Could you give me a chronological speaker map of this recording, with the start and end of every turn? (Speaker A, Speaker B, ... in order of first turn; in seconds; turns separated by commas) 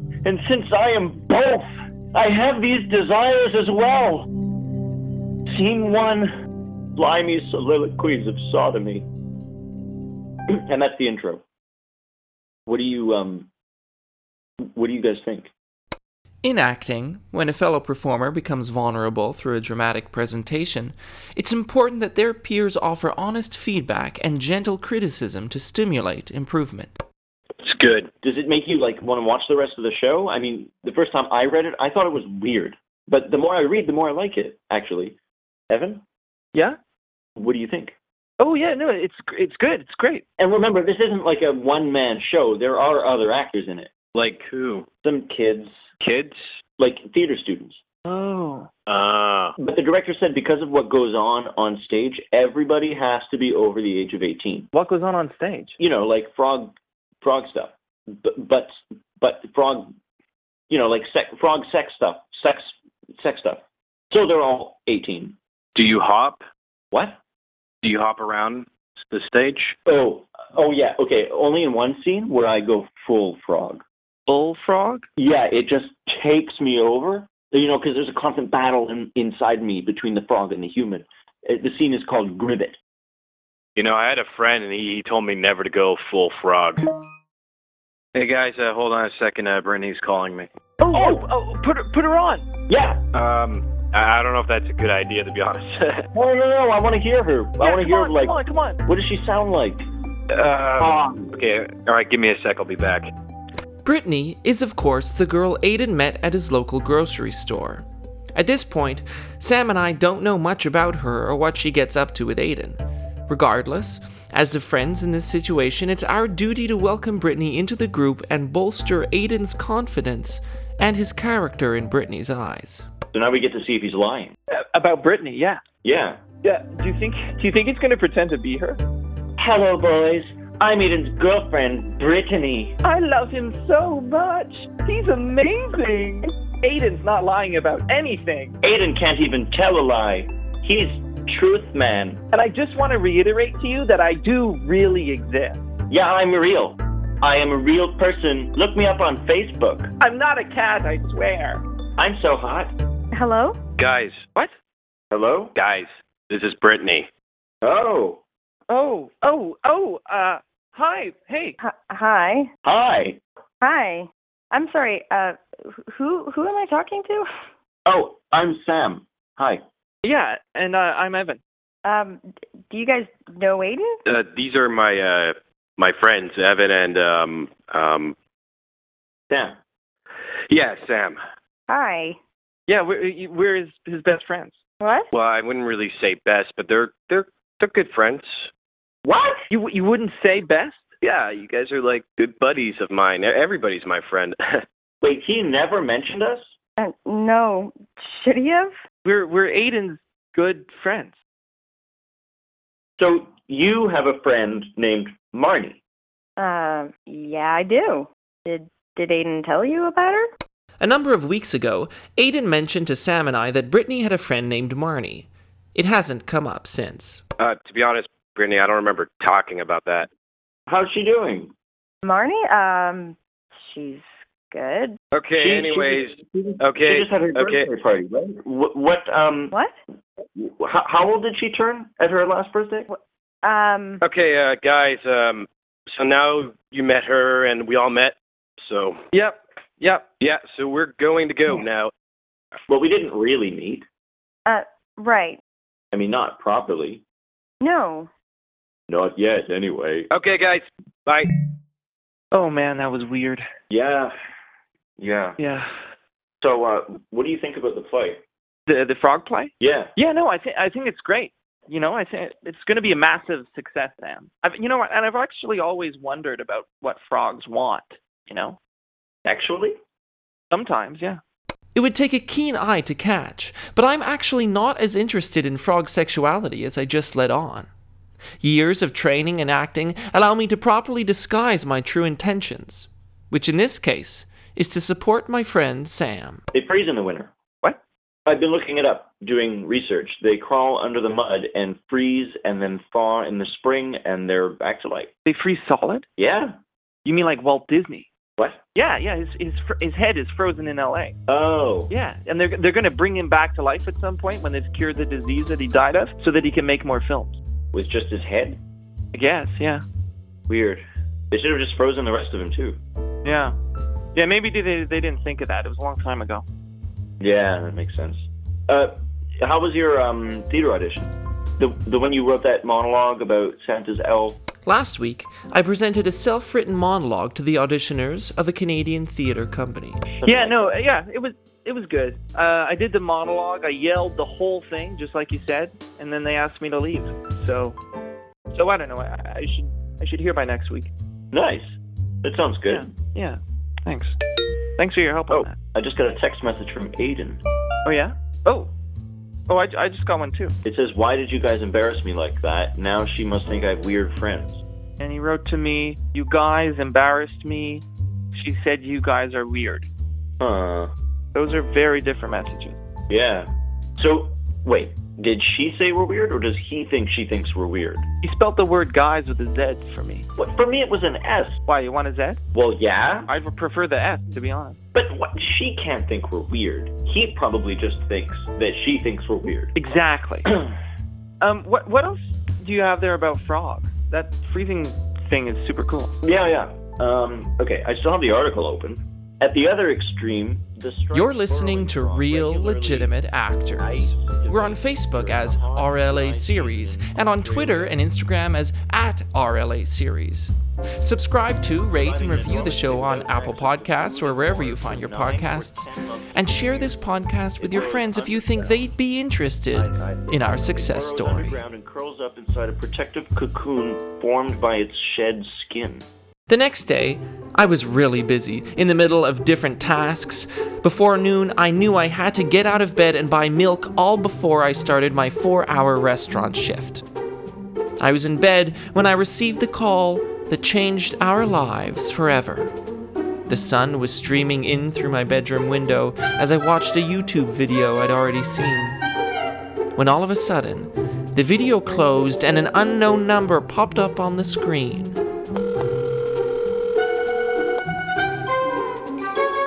Speaker A: 0.2-4.3, Speaker A: 5.5-6.3, Speaker A: 7.0-9.1, Speaker A: 10.5-11.4, Speaker A: 12.7-13.5, Speaker A: 14.6-15.5, Speaker B: 16.4-27.0, Speaker C: 27.6-28.1, Speaker A: 28.2-35.2, Speaker A: 35.7-36.0, Speaker A: 37.4-37.9, Speaker D: 38.4-40.2, Speaker A: 40.4-43.9, Speaker C: 44.1-44.9, Speaker A: 45.0-45.8, Speaker C: 46.0-46.4, Speaker A: 46.8-47.8, Speaker D: 48.0-48.7, Speaker C: 48.9-49.5, Speaker A: 49.6-54.7, Speaker D: 54.7-55.7, Speaker A: 55.8-59.9, Speaker A: 60.7-65.4, Speaker C: 65.7-66.4, Speaker A: 66.9-67.2, Speaker C: 67.8-69.7, Speaker A: 69.8-73.8, Speaker D: 74.3-75.0, Speaker A: 75.2-82.8, Speaker C: 83.8-86.8, Speaker C: 88.1-90.5, Speaker D: 90.8-92.5, Speaker A: 90.8-91.2, Speaker A: 92.7-93.0, Speaker C: 93.1-96.0, Speaker A: 96.1-99.8, Speaker D: 97.6-98.8, Speaker C: 100.3-103.1, Speaker A: 100.8-101.3, Speaker B: 103.8-122.9, Speaker A: 123.1-124.3, Speaker D: 124.5-125.6, Speaker A: 125.8-126.2, Speaker D: 126.4-128.8, Speaker A: 129.4-132.8, Speaker D: 132.8-138.6, Speaker A: 138.6-142.2, Speaker D: 142.3-145.6, Speaker A: 145.9-149.9, Speaker D: 150.0-151.6, Speaker A: 152.0-152.7, Speaker E: 153.1-153.6, Speaker C: 153.8-154.2, Speaker A: 155.1-155.5, Speaker C: 155.6-157.1, Speaker A: 157.6-158.2, Speaker D: 158.7-161.6, Speaker E: 161.6-162.5, Speaker A: 162.6-163.2, Speaker E: 163.6-167.3, Speaker A: 167.8-169.6, Speaker D: 170.0-171.4, Speaker E: 171.8-174.0, Speaker C: 174.1-178.1, Speaker A: 179.3-179.6, Speaker C: 180.5-181.2, Speaker E: 181.7-182.2, Speaker D: 182.7-184.6, Speaker E: 184.8-185.1, Speaker C: 185.1-188.5, Speaker A: 189.0-189.4, Speaker D: 189.5-190.9, Speaker C: 191.0-194.6, Speaker A: 195.0-196.5, Speaker E: 196.8-198.7, Speaker D: 199.0-201.2, Speaker A: 203.0-205.8, Speaker E: 206.4-210.3, Speaker B: 210.8-217.2, Speaker C: 217.4-220.1, Speaker A: 220.7-221.5, Speaker E: 222.0-225.0, Speaker C: 225.1-227.7, Speaker A: 225.3-229.5, Speaker A: 230.3-232.9, Speaker E: 232.9-234.0, Speaker C: 234.0-239.0, Speaker D: 239.1-240.1, Speaker C: 240.2-241.9, Speaker A: 242.7-243.8, Speaker E: 244.4-245.4, Speaker A: 245.9-247.0, Speaker E: 247.6-248.1, Speaker A: 248.9-250.1, Speaker C: 250.1-251.3, Speaker D: 252.3-253.4, Speaker A: 253.7-254.1, Speaker A: 255.0-255.4, Speaker D: 255.4-255.7, Speaker A: 256.4-258.2, Speaker D: 258.7-268.6, Speaker A: 259.6-259.9, Speaker A: 269.2-269.8, Speaker D: 270.5-271.2, Speaker B: 271.7-277.7, Speaker B: 278.4-286.4, Speaker A: 286.5-287.3, Speaker A: 288.2-295.1, Speaker D: 295.2-296.1, Speaker A: 296.2-296.6, Speaker D: 297.0-298.1, Speaker D: 298.7-301.1, Speaker A: 301.3-301.9, Speaker D: 301.9-307.4, Speaker A: 307.7-308.6, Speaker D: 309.1-309.8, Speaker A: 310.5-312.8, Speaker D: 313.2-313.5, Speaker D: 314.1-316.4, Speaker A: 317.2-324.4, Speaker B: 324.6-330.1, Speaker A: 330.1-330.7, Speaker D: 330.2-337.8, Speaker D: 338.5-340.9, Speaker A: 341.3-342.9, Speaker D: 342.7-344.1, Speaker D: 344.8-345.6, Speaker A: 345.3-347.4, Speaker D: 347.8-348.7, Speaker D: 349.5-350.6, Speaker A: 350.6-354.6, Speaker D: 355.0-359.9, Speaker A: 360.4-360.9, Speaker D: 361.3-362.8, Speaker A: 363.1-368.0, Speaker D: 368.2-370.3, Speaker A: 370.4-371.6, Speaker D: 371.7-372.4, Speaker A: 372.5-373.3, Speaker D: 373.3-374.8, Speaker A: 374.9-379.7, Speaker D: 379.7-380.6, Speaker D: 381.4-386.1, Speaker A: 386.2-393.1, Speaker B: 391.1-411.6, Speaker A: 393.8-398.0, Speaker A: 401.9-407.0, Speaker A: 407.6-408.8, Speaker A: 409.7-416.1, Speaker B: 416.5-427.0, Speaker B: 428.0-432.7, Speaker B: 433.5-439.0, Speaker B: 439.9-445.2